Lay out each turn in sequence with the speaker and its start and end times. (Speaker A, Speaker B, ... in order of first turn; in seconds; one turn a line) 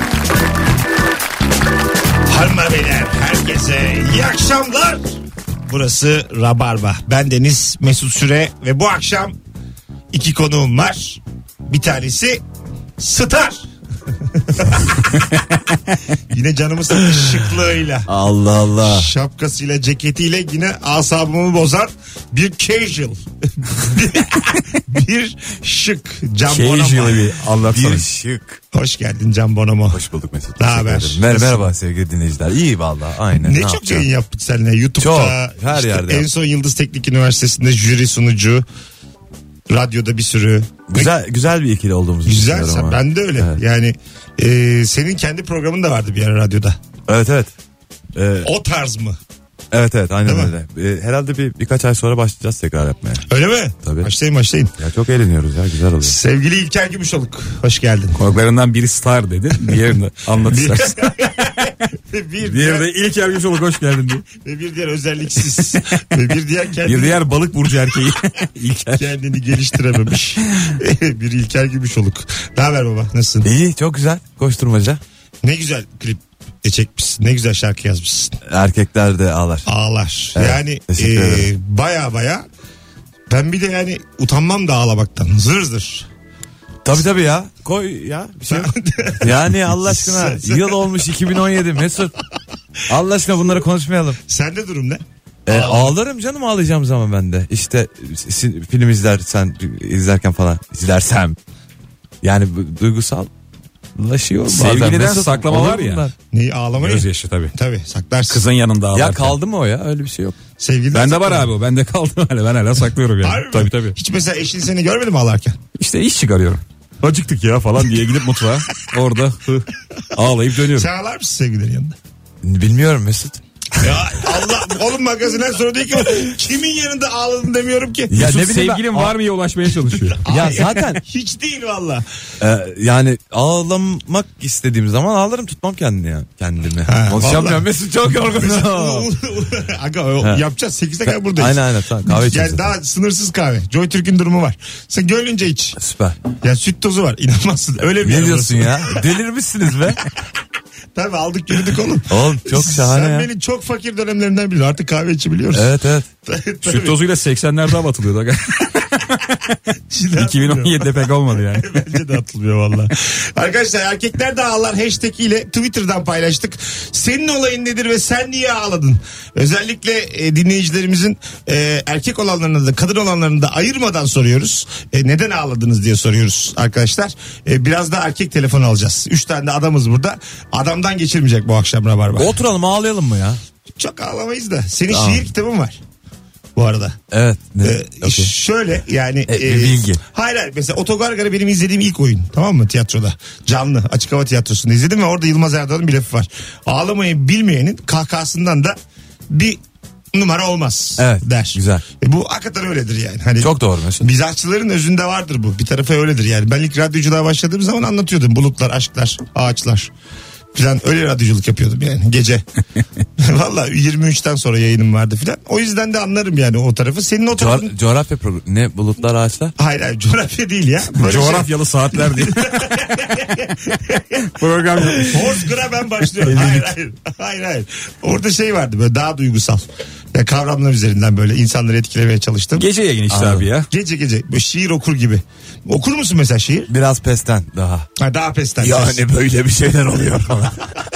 Speaker A: 2.3-5.0
Speaker A: 5.7-9.4
Speaker A: 10.1-12.4
Speaker A: 13.0-13.6
Speaker A: 14.3-14.9
Speaker A: 16.3-18.1
Speaker B: 18.1-19.1
Speaker A: 18.8-27.3
Speaker C: 26.4-28.1
Speaker B: 27.6-28.6
Speaker A: 28.7-30.0
Speaker B: 29.9-34.1
Speaker A: 30.6-31.7
Speaker A: 33.3-38.6
Speaker B: 35.0-36.3
Speaker A: 39.7-41.1
Speaker B: 40.9-43.6
Speaker A: 42.3-46.8
Speaker B: 47.1-47.5
Speaker B: 48.2-48.5
Speaker A: 48.4-49.2
Speaker B: 49.7-53.3
Speaker A: 50.3-50.5
Speaker A: 53.3-54.7
Speaker B: 53.8-54.1
Speaker B: 54.8-56.2
Speaker A: 56.0-58.2
Speaker C: 58.1-61.5
Speaker A: 60.4-62.9
Speaker C: 62.4-64.3
Speaker A: 64.4-67.2
Speaker C: 66.8-69.1
Speaker A: 69.0-73.5
Speaker B: 73.4-75.0
Speaker A: 75.4-78.4
Speaker B: 78.5-79.7
Speaker A: 79.7-82.5
Speaker B: 80.3-81.5
Speaker A: 83.3-86.1
Speaker B: 86.8-92.1
Speaker A: 88.5-90.9
Speaker B: 92.9-94.2
Speaker A: 94.3-95.9
Speaker B: 95.5-101.4
Speaker B: 102.2-103.3
Speaker B: 104.0-106.1
Speaker C: 104.5-106.0
Speaker A: 106.3-108.4
Speaker C: 106.8-107.5
Speaker C: 108.3-109.4
Speaker B: 108.9-110.4
Speaker A: 110.6-111.5
Speaker C: 110.9-114.0
Speaker A: 113.2-115.6
Speaker C: 115.8-120.9
Speaker A: 120.8-122.0
Speaker B: 122.4-124.3
Speaker A: 123.8-128.1
Speaker B: 128.1-129.2
Speaker C: 128.1-130.8
Speaker A: 130.1-132.1
Speaker B: 130.3-131.0
Speaker B: 132.4-139.1
Speaker A: 136.9-137.7
Speaker A: 138.3-145.8
Speaker B: 140.2-140.5
Speaker B: 141.0-142.8
Speaker B: 145.8-146.2
Speaker A: 146.4-149.0
Speaker B: 148.0-150.0
Speaker A: 150.9-155.7
Speaker B: 152.1-153.3
Speaker B: 155.5-156.1
Speaker A: 156.3-157.0
Speaker C: 156.6-159.5
Speaker A: 159.9-161.0
Speaker C: 160.2-161.8
Speaker A: 161.6-182.3
Speaker B: 182.2-183.4
Speaker A: 183.8-185.8
Speaker B: 184.9-185.3
Speaker A: 186.6-187.0
Speaker B: 187.1-188.3
Speaker A: 187.6-198.8
Speaker B: 189.3-190.0
Speaker A: 199.3-199.6
Speaker A: 200.1-209.9
Speaker B: 201.0-201.8
Speaker B: 203.4-204.1
Speaker A: 210.5-212.4
Speaker A: 213.2-217.7
Speaker B: 217.3-219.6
Speaker A: 219.6-221.5
Speaker C: 221.0-222.9
Speaker A: 222.0-224.3
Speaker C: 224.3-225.5
Speaker A: 225.0-232.7
Speaker C: 226.2-226.6
Speaker C: 232.6-233.7
Speaker B: 233.1-233.5
Speaker A: 233.7-236.7
Speaker B: 236.7-237.9
Speaker A: 238.0-239.0
Speaker B: 238.6-240.7